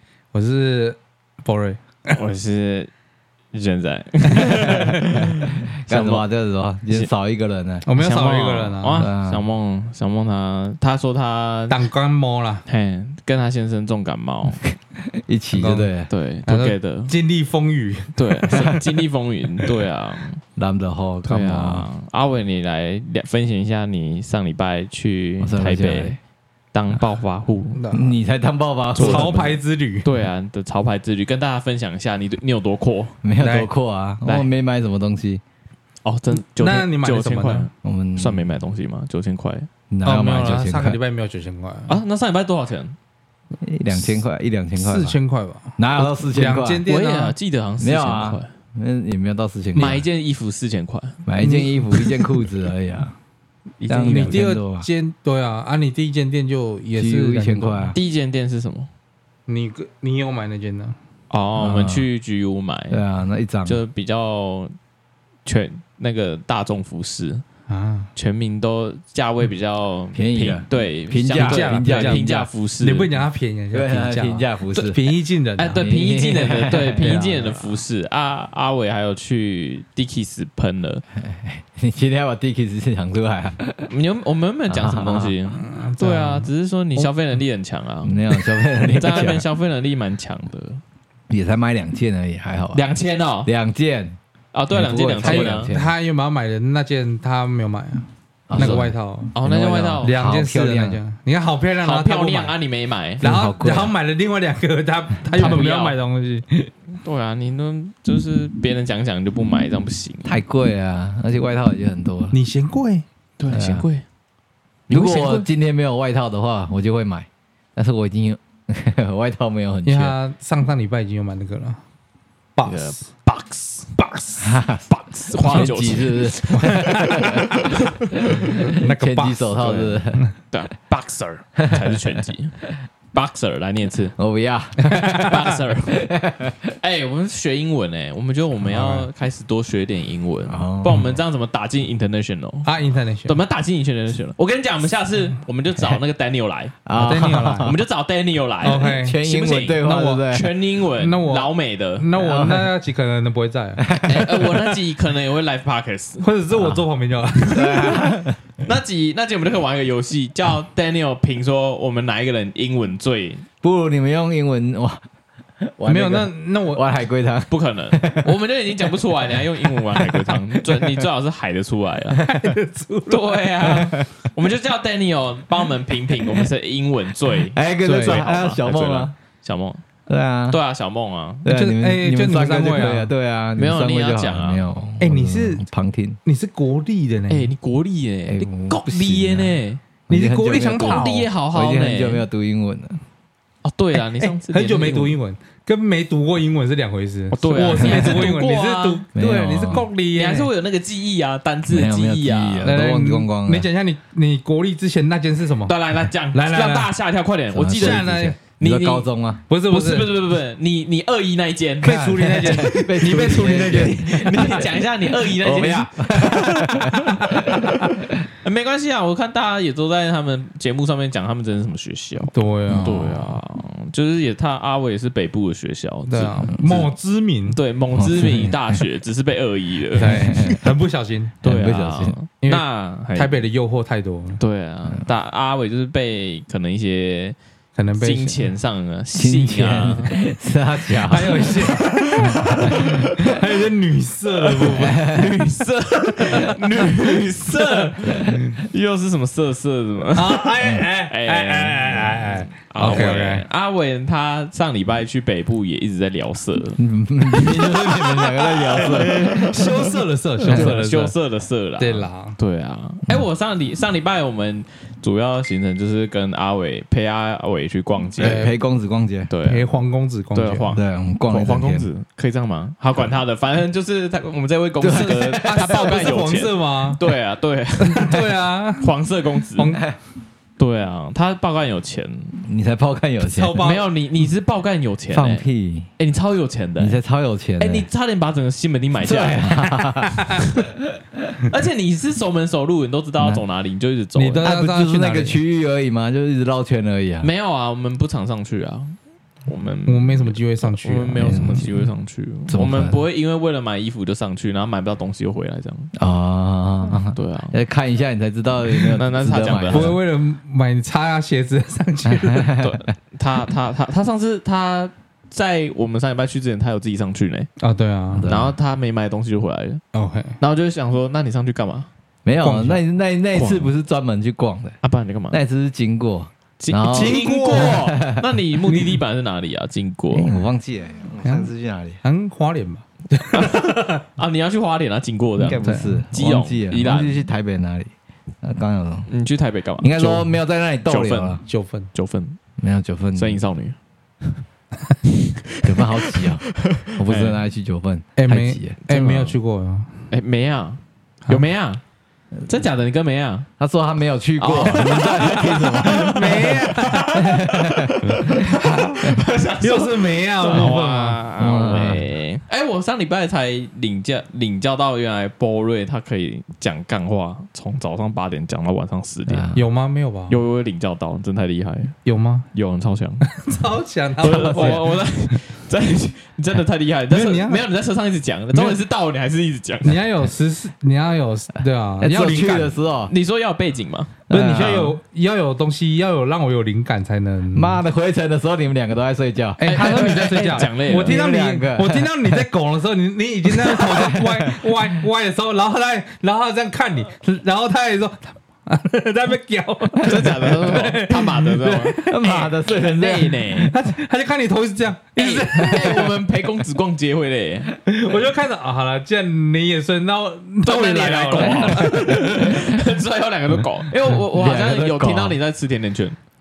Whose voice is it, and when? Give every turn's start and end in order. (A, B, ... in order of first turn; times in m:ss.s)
0:00.3-0:01.8 A
0:02.1-0:02.9 B
0:03.5-0:06.2 B
0:04.4-0:04.8 A
0:04.6-0:07.9 C
0:07.8-0:09.0 A
0:08.0-0:11.8 B
0:09.0-0:09.4 C
0:11.7-0:12.6 A
0:12.7-0:14.6 B
0:14.9-0:16.1 C
0:15.6-0:15.9 A
0:16.1-0:17.1 B
0:16.5-0:18.7 A
0:18.2-0:20.4 B
0:18.5-0:18.8 C
0:20.6-0:21.9 C
0:21.2-0:26.2 B
0:25.4-0:26.2 C
0:26.7-0:27.8 B
0:27.8-0:28.2 A
0:27.9-0:29.4 C
0:29.0-0:30.1 A
0:29.0-0:33.2 B
0:33.2-0:35.4 C
0:33.4-0:33.7 A
0:34.2-0:34.5 B
0:36.0-0:39.7 B
0:36.4-0:37.7 A
0:37.8-0:38.5 C
0:39.9-0:41.0 C
0:40.0-0:42.0 A
0:41.9-0:43.0 B
0:43.6-0:45.2 C
0:44.8-0:47.4 A
0:45.8-0:46.8 C
0:46.9-0:48.5 B
0:47.8-0:50.0 C
0:49.8-0:51.2 B
0:51.3-0:53.2 C
0:51.4-0:52.0 A
0:53.8-0:54.4 B
0:53.9-0:54.9 C
0:54.1-0:58.0 A
0:57.0-0:58.0 C
0:57.9-0:58.9 B
0:59.5-1:01.0 A
1:01.3-1:03.0 B
1:01.6-1:02.1 C
1:02.9-1:03.8 C
1:03.6-1:04.7 B
1:05.4-1:07.4 B
1:07.7-1:08.1 A
1:08.2-1:13.1 B
1:10.2-1:12.5 C
1:11.3-1:12.2 A
1:12.8-1:15.8 A
1:13.7-1:15.0 C
1:15.6-1:21.0 B
1:15.8-1:17.1 C
1:17.0-1:17.8 A
1:21.2-1:23.9 C
1:23.9-1:30.8 B
1:24.7-1:25.3 C
1:25.5-1:26.5 A
1:28.0-1:29.4 C
1:31.3-1:32.8 C
1:32.7-1:33.5 B
1:33.4-1:34.2 C
1:34.5-1:35.7 B
1:34.7-1:35.9 C
1:35.2-1:39.3 A
1:38.5-1:41.0 C
1:38.6-1:38.8 B
1:39.3-1:40.2 B
1:40.0-1:42.5 A
1:41.8-1:43.2 B
1:43.2-1:43.9 C
1:43.2-1:46.6 A
1:45.4-1:46.0 B
1:47.0-1:50.4 B
1:50.2-1:52.4 C
1:52.3-1:53.0 A
1:53.4-1:54.0 B
1:53.5-1:53.9 C
1:54.9-1:55.5 B
1:54.9-2:00.2 C
1:59.8-2:01.8 A
2:02.6-2:03.0 A
2:02.6-2:03.9 B
2:04.0-2:04.6 A
2:04.4-2:07.7 C
2:04.9-2:08.1 B
2:06.5-2:07.4 A
2:08.4-2:10.2 C
2:08.6-2:10.3 A
2:10.5-2:12.6 B
2:11.6-2:12.0 C
2:13.1-2:14.2 B
2:14.2-2:16.7 C
2:14.9-2:15.4 A
2:14.9-2:16.1 B
2:16.8-2:22.7 B
2:18.7-2:19.1 A
2:20.5-2:21.2 C
2:22.6-2:23.4 A
2:23.3-2:26.8 B
2:26.9-2:27.8 C
2:27.0-2:27.8 A
2:27.4-2:32.1 B
2:28.6-2:29.2 A
2:28.8-2:30.5 C
2:29.8-2:30.2 A
2:31.0-2:33.8 A
2:32.2-2:32.7 C
2:33.8-2:34.8 C
2:34.0-2:36.3 B
2:36.2-2:38.2 A
2:36.6-2:36.8 C
2:37.5-2:38.4 C
2:38.6-2:43.4 B
2:43.6-2:45.0 C
2:45.6-2:48.9 C
2:45.9-2:46.8 A
2:47.5-2:52.3 B
2:49.6-2:51.1 C
2:52.2-2:53.7 A
2:53.1-2:59.8 B
2:53.6-2:54.1 C
2:57.5-2:59.2 C
2:57.8-2:58.2 A
3:00.1-3:00.6 C
3:00.5-3:01.5 B
3:01.4-3:06.2 C
3:01.5-3:03.1 A
3:03.6-3:04.6 B
3:05.0-3:05.6 A
3:06.2-3:07.5 A
3:07.3-3:09.8 B
3:08.3-3:13.0 C
3:10.1-3:11.3 A
3:10.8-3:12.3 B
3:13.6-3:15.2 B
3:14.0-3:20.5 A
3:17.3-3:19.0 B
3:19.2-3:19.9 C
3:20.1-3:22.7 B
3:21.7-3:23.7 C
3:22.6-3:25.8 A
3:25.7-3:29.1 B
3:26.3-3:26.9 A
3:27.5-3:29.4 C
3:27.7-3:28.4 A
3:29.5-3:30.1 A
3:29.7-3:36.7 B
3:31.8-3:34.6 A
3:31.8-3:37.7 C
3:36.2-3:37.9 A
3:37.3-3:46.9 B
3:42.3-3:43.4 A
3:46.1-3:47.6 A
3:47.5-3:50.6 B
3:48.0-3:48.8 C
3:48.2-3:48.5 A
3:50.0-3:51.4 A
3:50.0-3:50.6 C
3:51.4-3:52.2 C
3:51.4-3:53.4 B
3:52.4-3:54.4 A
3:54.4-3:57.4 B
3:57.8-3:58.5 A
3:58.0-4:00.2 B
3:59.1-4:01.7 C
4:00.9-4:05.0 A
4:01.4-4:03.4 B
4:04.6-4:05.4 C
4:04.8-4:28.5 B
4:08.0-4:08.5 C
4:10.1-4:13.5 A
4:16.8-4:19.7 C
4:18.8-4:21.1 A
4:21.8-4:22.4 A
4:28.2-4:28.6 A
4:28.2-4:29.3 C
4:29.3-4:29.6 B
4:29.4-4:30.7 A
4:30.3-4:38.2 B
4:30.8-4:31.9 C
4:34.8-4:36.2 C
4:34.9-4:37.0 A
4:37.8-4:38.9 A
4:38.8-4:39.8 B
4:39.6-4:39.8 A
4:40.6-4:42.4 B
4:42.4-4:43.6 C
4:43.2-4:43.9 A
4:43.6-4:45.4 B
4:45.1-4:45.9 C
4:46.0-4:47.0 B
4:46.8-4:47.9 C
4:47.6-4:49.5 B
4:49.0-4:51.3 C
4:50.1-4:50.4 A
4:51.5-4:54.5 B
4:54.2-4:55.4 A
4:54.4-4:57.3 C
4:57.2-4:59.0 B
4:59.5-5:05.9 B
4:59.9-5:01.8 A
5:01.2-5:01.7 C
5:02.5-5:03.0 C
5:06.0-5:10.0 C
5:07.1-5:07.6 B
5:08.8-5:10.0 B
5:09.7-5:12.5 A
5:12.0-5:12.9 C
5:12.6-5:17.5 B
5:17.6-5:18.3 A
5:18.1-5:18.6 C
5:18.3-5:19.8 B
5:19.9-5:20.4 A
5:20.4-5:21.9 B
5:22.2-5:24.8 C
5:22.4-5:22.8 A
5:23.3-5:23.7 B
5:24.8-5:25.4 B
5:25.3-5:28.2 C
5:26.6-5:30.3 B
5:26.9-5:27.9 A
5:28.7-5:29.0 A
5:30.1-5:32.0 C
5:31.2-5:31.5 A
5:32.0-5:34.0 A
5:33.3-5:37.3 B
5:35.4-5:37.9 C
5:35.6-5:36.0 A
5:38.4-5:39.1 C
5:39.1-5:40.3 B
5:39.8-5:41.4 C
5:40.8-5:42.4 B
5:41.5-5:41.9 A
5:42.6-5:43.4 C
5:43.2-5:43.8 B
5:45.5-5:47.4 B
5:45.6-5:48.8 C
5:48.2-5:50.0 A
5:48.9-5:49.4 B
5:50.1-5:51.8 B
5:52.5-5:53.5 B
5:53.6-5:56.6 C
5:54.4-6:09.6 B
5:54.8-5:57.3 A
5:57.2-5:59.2 C
5:58.0-6:01.2 A
6:01.4-6:02.1 C
6:09.3-6:09.6 C
6:09.5-6:10.4 A
6:10.3-6:12.0 B
6:12.0-6:12.5 A
6:12.5-6:13.3 B
6:13.3-6:14.8 A
6:14.2-6:20.0 B
6:14.2-6:14.8 C
6:17.1-6:17.7 A
6:18.5-6:18.8 A
6:19.8-6:22.8 A
6:22.0-6:23.1 C
6:23.1-6:24.1 B
6:24.3-6:25.0 C
6:24.3-6:27.8 A
6:27.5-6:29.6 C
6:29.6-6:42.1 A
6:29.6-6:31.2 B
6:30.9-6:32.4 C
6:33.5-6:35.0 C
6:40.0-6:43.8 B
6:41.9-6:43.5 C
6:43.7-6:46.2 A
6:45.2-6:47.7 B
6:47.9-6:52.6 A
6:50.6-6:56.2 B
6:51.7-6:52.8 C
6:53.6-6:55.4 C